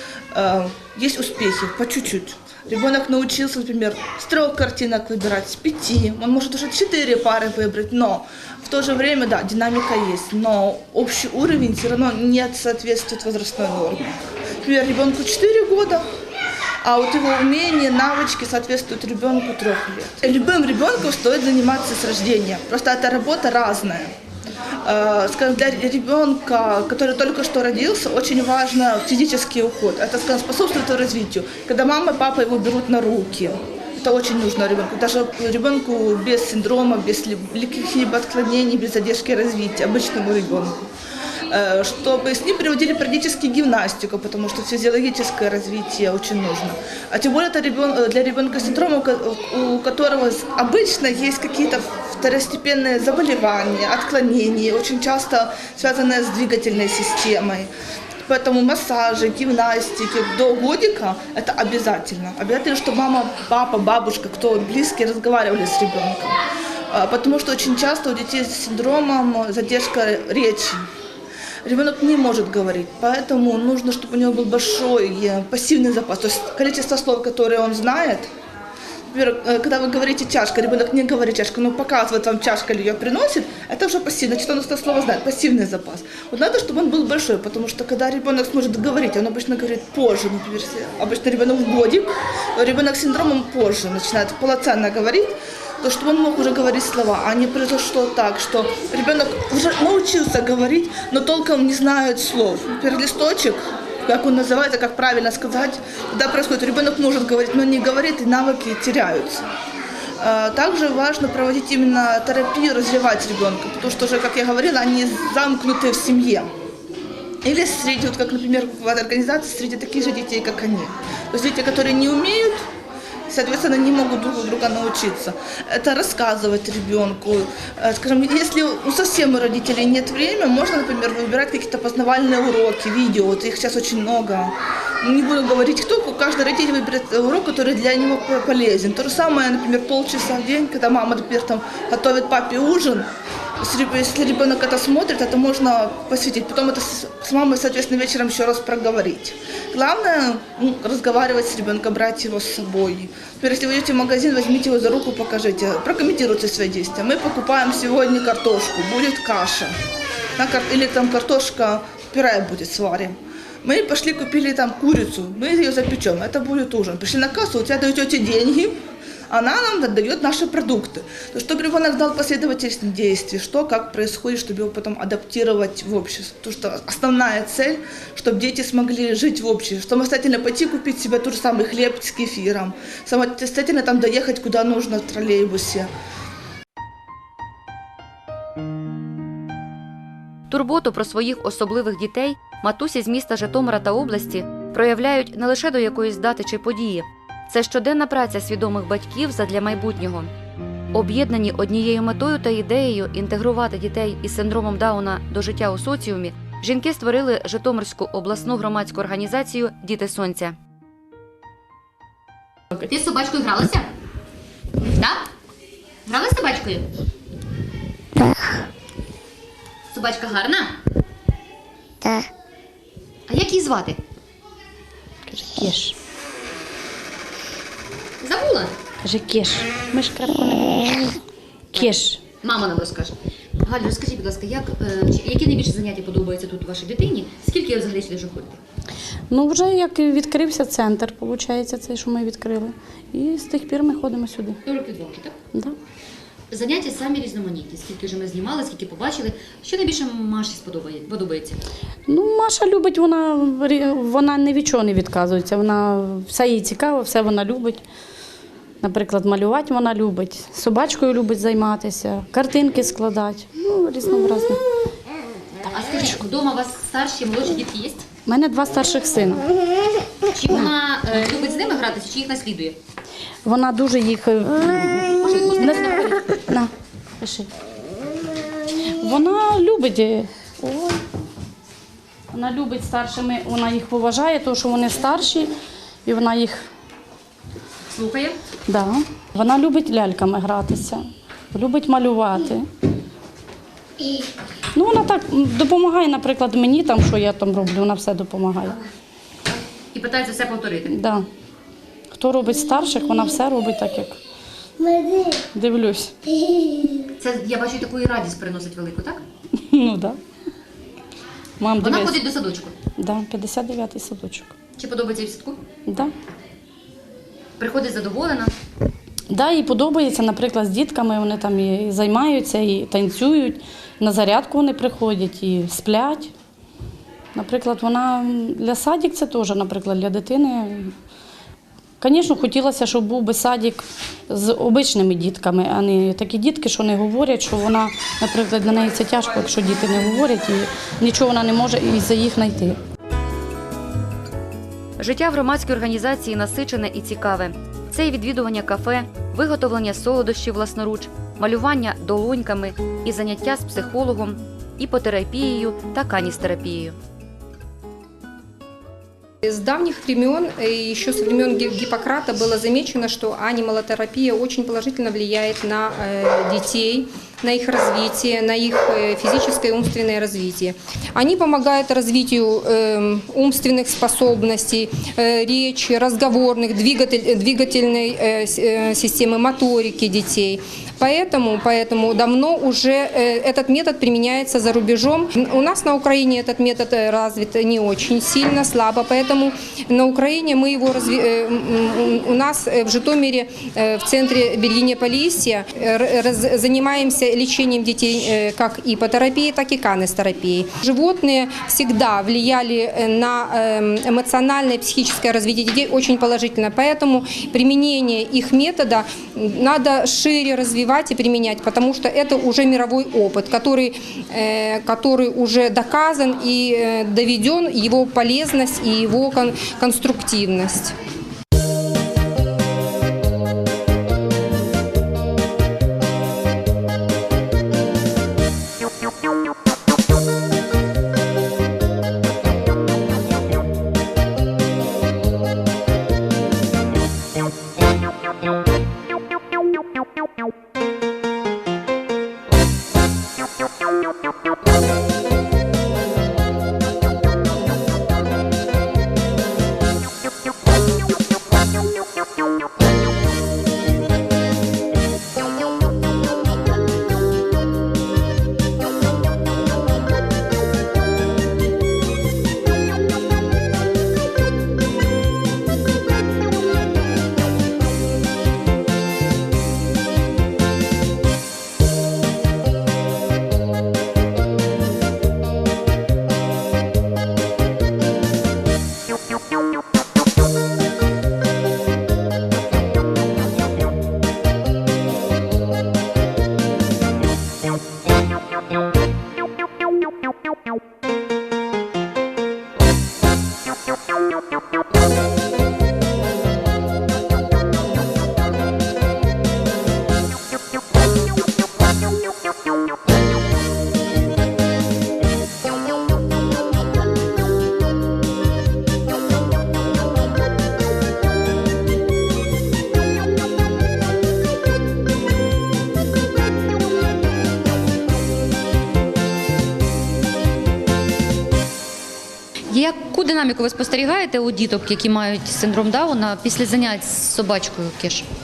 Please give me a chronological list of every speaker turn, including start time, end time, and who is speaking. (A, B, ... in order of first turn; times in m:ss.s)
0:00.3-0:16.0 A
0:16.8-0:24.1 A
0:24.8-0:40.8 A
0:41.5-0:57.7 A
0:58.3-1:06.4 A
1:06.9-1:10.8 A
1:11.6-1:18.3 A
1:19.1-1:49.5 A
1:50.2-1:56.5 A
1:57.4-2:02.7 A
2:03.3-2:23.1 A
2:23.6-2:39.7 A
2:40.4-2:48.8 A
2:49.3-3:05.9 A
3:10.5-3:20.3 B
3:20.9-3:30.6 B
3:32.8-3:33.9 C
3:34.9-3:35.2 C
3:36.1-3:36.8 C
3:39.9-3:40.7 C
3:43.3-3:44.0 C
3:45.3-3:46.0 D
3:48.2-3:48.7 C
3:49.0-3:51.2 D
3:51.7-3:52.2 D
3:51.8-3:58.6 C
3:59.3-4:04.6 D
4:04.6-4:05.4 C
4:06.5-4:11.6 C
4:12.1-4:17.8 D
4:18.8-4:24.6 D
4:25.6-4:28.0 C
4:28.3-4:29.5 D
4:30.3-4:32.8 C
4:33.4-4:37.5 D
4:35.3-4:36.2 C
4:38.9-4:41.0 D
4:42.3-4:45.5 D
4:46.0-4:46.7 D
4:47.9-4:48.4 C
4:48.7-4:52.7 D
4:54.8-4:58.8 D
4:59.9-5:00.9 C
5:00.9-5:01.3 D
5:02.1-5:04.2 D
5:05.5-5:06.2 D
5:07.2-5:09.2 C
5:09.6-5:10.2 D
5:11.6-5:12.2 D
5:11.8-5:12.8 C
5:13.0-5:14.6 D
5:14.8-5:15.6 C
5:15.9-5:16.1 D
5:17.6-5:18.5 C
5:19.3-5:26.3 D
5:27.4-5:31.0 D
5:32.0-5:42.8 D
5:45.0-5:57.0 B
5:59.4-7:01.0 E
8:42.7-8:48.3 C